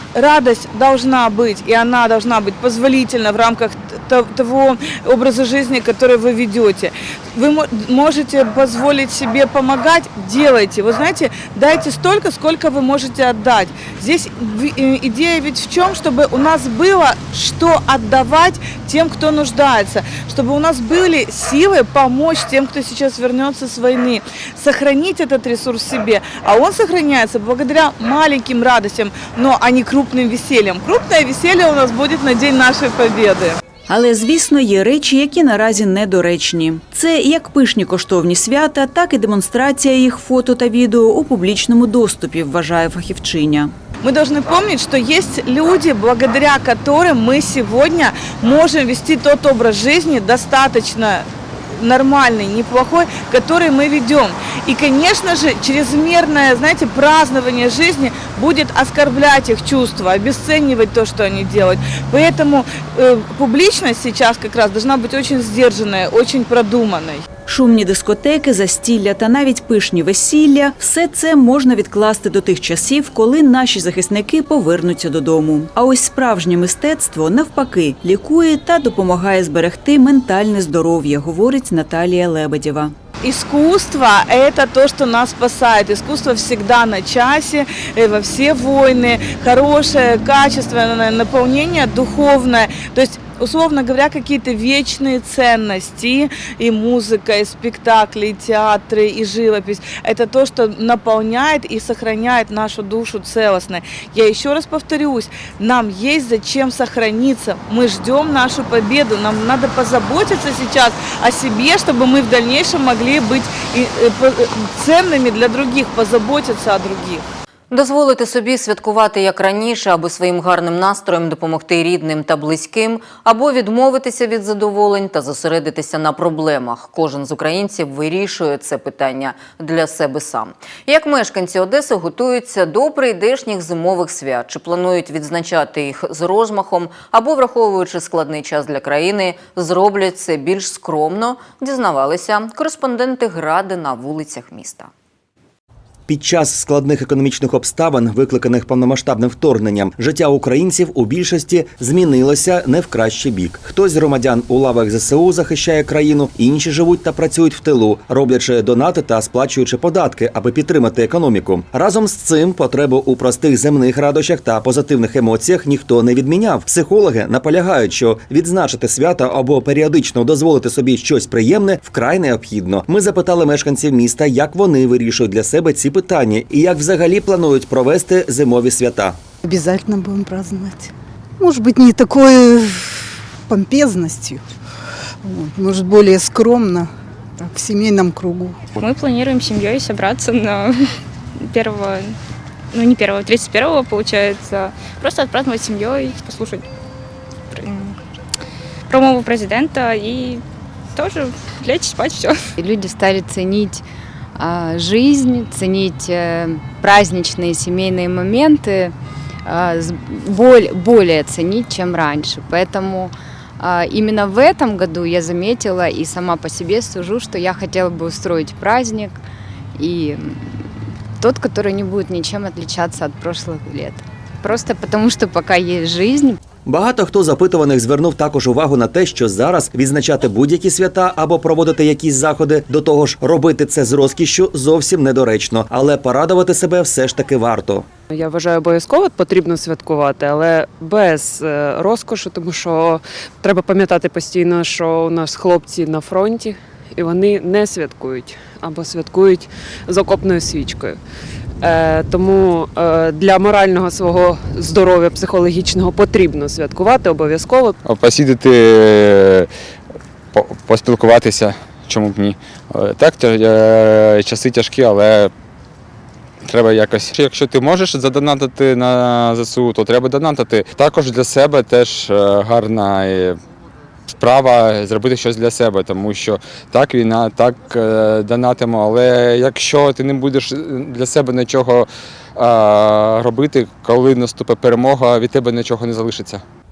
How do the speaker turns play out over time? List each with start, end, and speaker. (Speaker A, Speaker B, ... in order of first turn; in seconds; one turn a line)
Speaker A: 0.1-33.6
Speaker B: 33.9-43.7
Speaker A: 44.0-67.2
Speaker B: 67.5-82.9
Speaker A: 83.2-117.2
Speaker C: 117.7-144.9
Speaker D: 146.1-179.2
Speaker E: 179.4-184.5
Speaker E: 185.2-188.8
Speaker F: 188.8-190.8
Speaker F: 191.4-192.2
Speaker F: 192.7-196.7
Speaker F: 197.5-198.0
Speaker F: 198.9-200.4
Speaker F: 200.9-202.4
Speaker G: 202.6-203.8
Speaker G: 204.3-208.9
Speaker G: 209.4-219.2
Speaker G: 219.8-220.5
Speaker G: 221.2-226.4
Speaker D: 226.7-237.9
Speaker H: 238.2-251.0
Speaker H: 251.6-257.7
Speaker I: 257.8-259.5
Speaker I: 260.3-265.3
Speaker I: 266.4-273.4
Speaker I: 274.1-286.4